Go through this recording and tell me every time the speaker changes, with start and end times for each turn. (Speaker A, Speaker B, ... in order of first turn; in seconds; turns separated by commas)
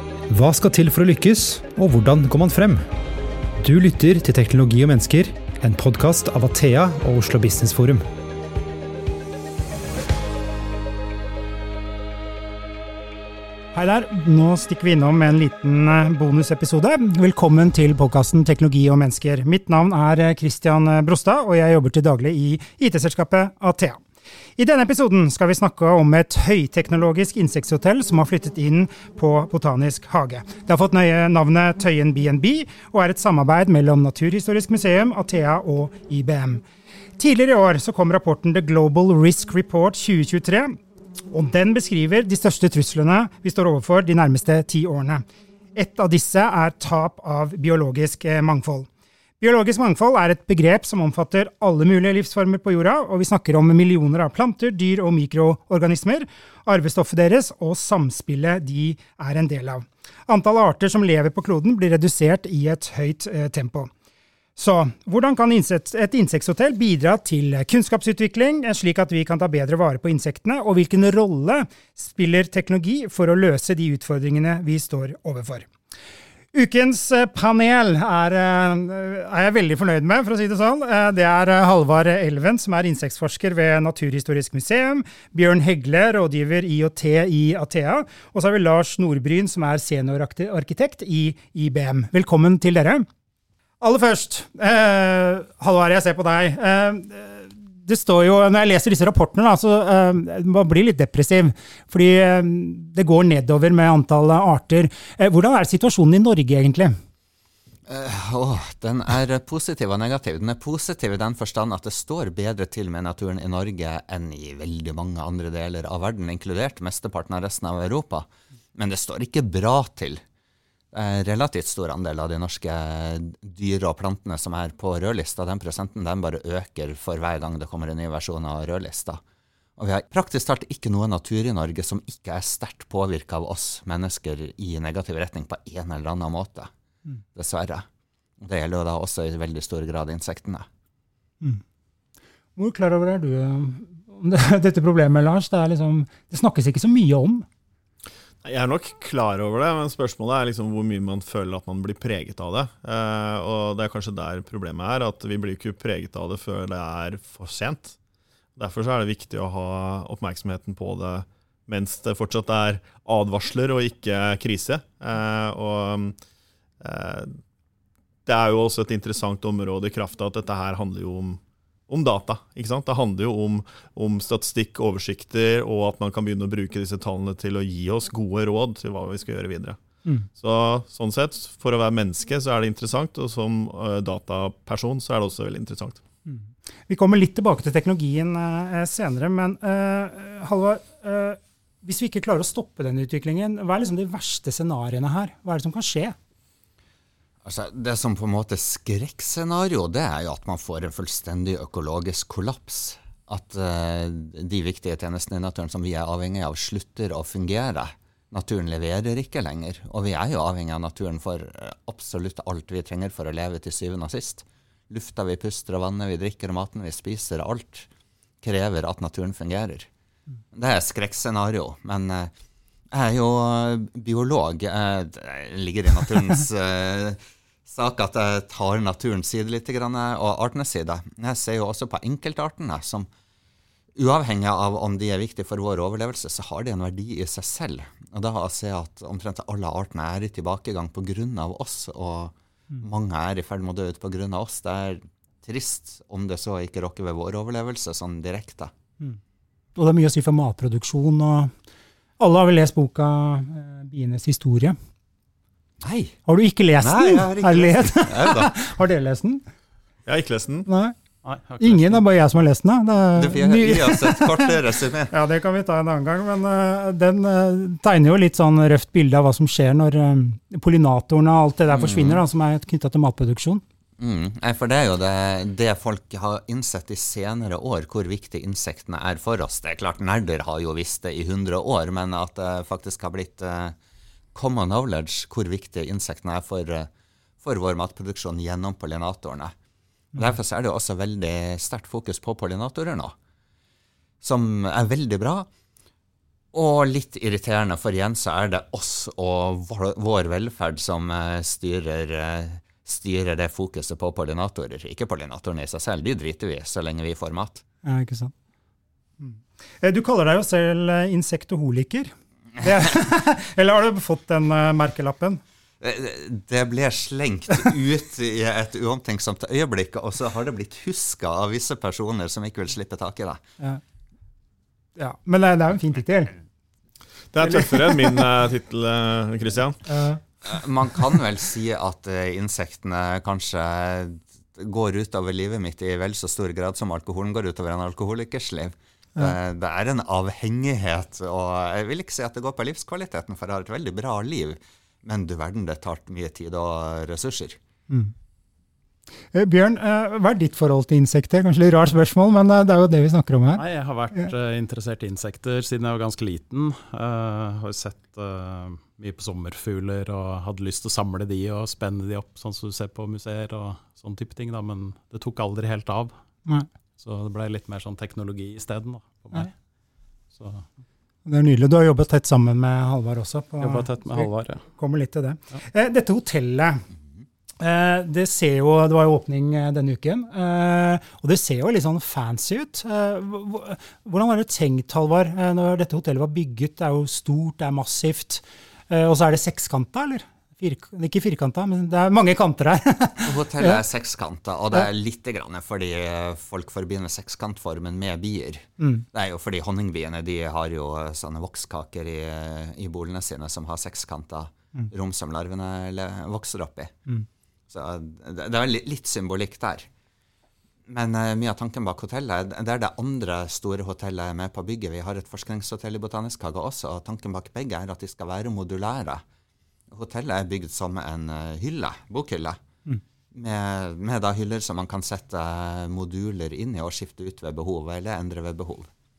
Speaker A: 0.3-2.9, Speaker A: 3.6-8.1, Speaker B: 13.7-24.0, Speaker B: 24.6-36.6, Speaker B: 37.2-40.8, Speaker B: 41.3-45.2, Speaker B: 45.8-48.9, Speaker B: 49.4-63.9, Speaker B: 64.6-75.7, Speaker B: 76.5-93.1, Speaker B: 93.8-107.0, Speaker C: 107.9-120.2, Speaker C: 120.9-129.2, Speaker C: 129.8-136.7, Speaker C: 137.3-137.8, Speaker C: 138.4-140.7, Speaker B: 142.6-147.5, Speaker D: 148.4-157.9, Speaker D: 158.6-166.2, Speaker D: 166.8-167.3, Speaker D: 168.3-179.8, Speaker D: 180.4-186.0, Speaker B: 186.3-196.2, Speaker C: 197.4-217.9, Speaker C: 218.4-219.9, Speaker C: 220.5-222.3, Speaker C: 222.9-233.1, Speaker C: 234.0-248.7, Speaker B: 249.8-251.5, Speaker B: 252.2-254.8, Speaker C: 255.8-256.2, Speaker B: 256.3-259.4, Speaker C: 256.8-258.5, Speaker D: 260.1-260.7, Speaker B: 260.7-260.9, Speaker E: 261.2-262.0, Speaker B: 261.6-264.6, Speaker C: 263.2-265.1, Speaker B: 265.1-273.6, Speaker C: 271.7-272.2, Speaker C: 274.0-283.8, Speaker C: 284.4-286.9, Speaker C: 287.4-289.5, Speaker C: 290.1-293.1, Speaker C: 294.2-295.5, Speaker C: 296.5-307.6, Speaker B: 307.9-308.3, Speaker B: 309.2-315.4, Speaker C: 315.8-323.4, Speaker B: 325.0-326.4, Speaker D: 327.3-329.8, Speaker B: 327.4-328.2, Speaker B: 329.9-330.2, Speaker C: 330.4-347.6, Speaker B: 349.3-353.6, Speaker E: 353.6-366.1, Speaker E: 367.0-369.5, Speaker E: 370.3-370.7, Speaker B: 371.3-376.8, Speaker E: 373.6-374.6, Speaker B: 377.6-393.8, Speaker C: 393.2-406.9, Speaker B: 398.8-399.1, Speaker C: 407.7-409.9, Speaker C: 410.9-419.2, Speaker C: 419.9-422.6, Speaker C: 423.3-428.9